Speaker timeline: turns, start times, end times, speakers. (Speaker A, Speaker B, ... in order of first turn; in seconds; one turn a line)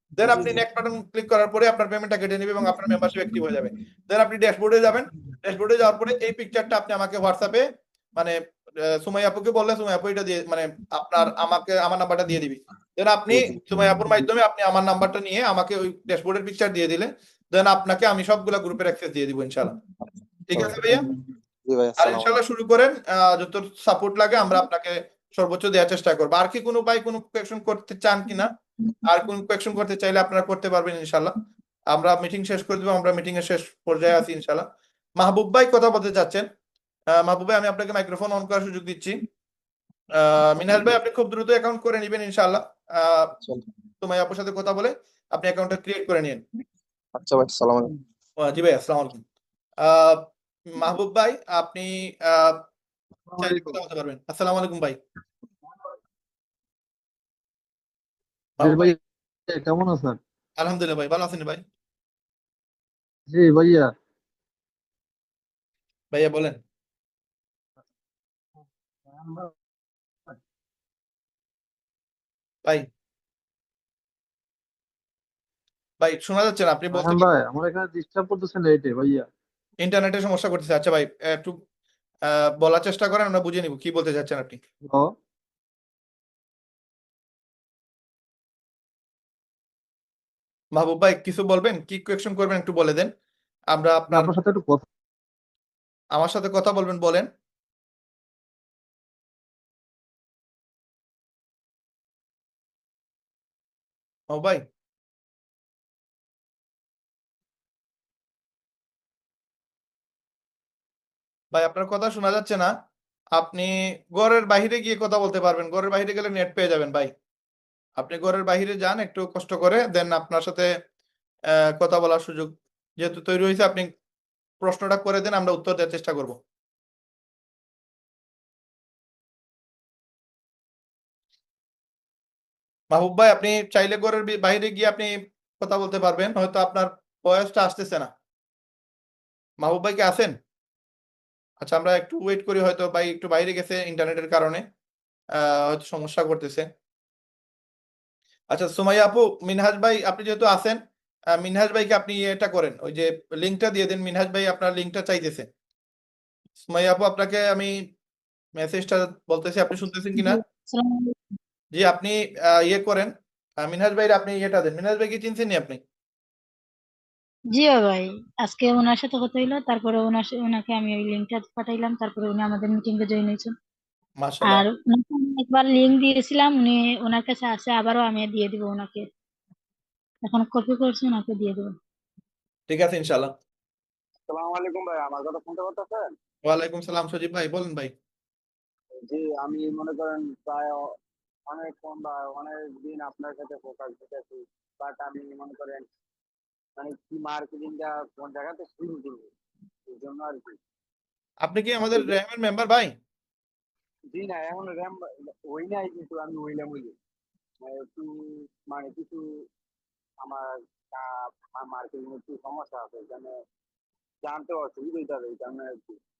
Speaker A: 0.2-19.8
Speaker B: 0.3-0.6
Speaker C: 13.3-13.6
Speaker A: 20.5-21.0
Speaker C: 20.5-21.0
Speaker C: 21.6-22.4
Speaker A: 22.0-28.5
Speaker A: 29.0-31.3
Speaker A: 31.9-34.6
Speaker A: 35.2-36.4
Speaker A: 37.2-39.2
Speaker A: 40.1-43.3
Speaker C: 40.6-41.0
Speaker A: 44.0-46.4
Speaker C: 47.1-47.9
Speaker A: 48.4-49.2
Speaker A: 49.8-52.6
Speaker B: 53.3-53.8
Speaker A: 53.4-55.0
Speaker A: 58.6-58.9
Speaker B: 58.6-59.0
Speaker B: 59.5-60.2
Speaker A: 60.6-61.6
Speaker B: 63.3-63.9
Speaker A: 66.1-66.6
Speaker B: 69.1-69.5
Speaker A: 76.0-77.3
Speaker B: 76.9-79.3
Speaker A: 79.8-81.6
Speaker A: 82.3-84.6
Speaker B: 84.8-85.1
Speaker A: 90.8-93.1
Speaker A: 93.7-94.3
Speaker B: 94.1-94.8
Speaker A: 96.1-97.3
Speaker A: 104.3-104.6
Speaker A: 111.5-112.7
Speaker A: 113.3-117.1
Speaker A: 118.0-120.7
Speaker A: 121.8-123.9
Speaker A: 124.6-126.4
Speaker A: 132.9-138.1
Speaker A: 139.6-140.3
Speaker A: 141.6-144.6
Speaker A: 145.4-146.7
Speaker A: 148.5-150.8
Speaker A: 151.4-155.4
Speaker A: 156.6-157.7
Speaker A: 158.6-160.4
Speaker D: 160.1-161.1
Speaker A: 161.7-163.1
Speaker A: 163.6-165.8
Speaker D: 167.5-173.5
Speaker A: 174.2-174.6
Speaker D: 174.4-179.0
Speaker D: 180.2-181.7
Speaker A: 182.7-183.3
Speaker E: 184.3-186.1
Speaker A: 186.4-187.9
Speaker E: 189.0-190.9
Speaker E: 191.5-195.9
Speaker E: 196.8-199.3
Speaker E: 199.8-200.6
Speaker A: 201.4-202.9
Speaker E: 201.8-202.1
Speaker E: 204.1-206.9
Speaker E: 207.6-209.4
Speaker E: 210.2-213.3
Speaker E: 214.2-216.0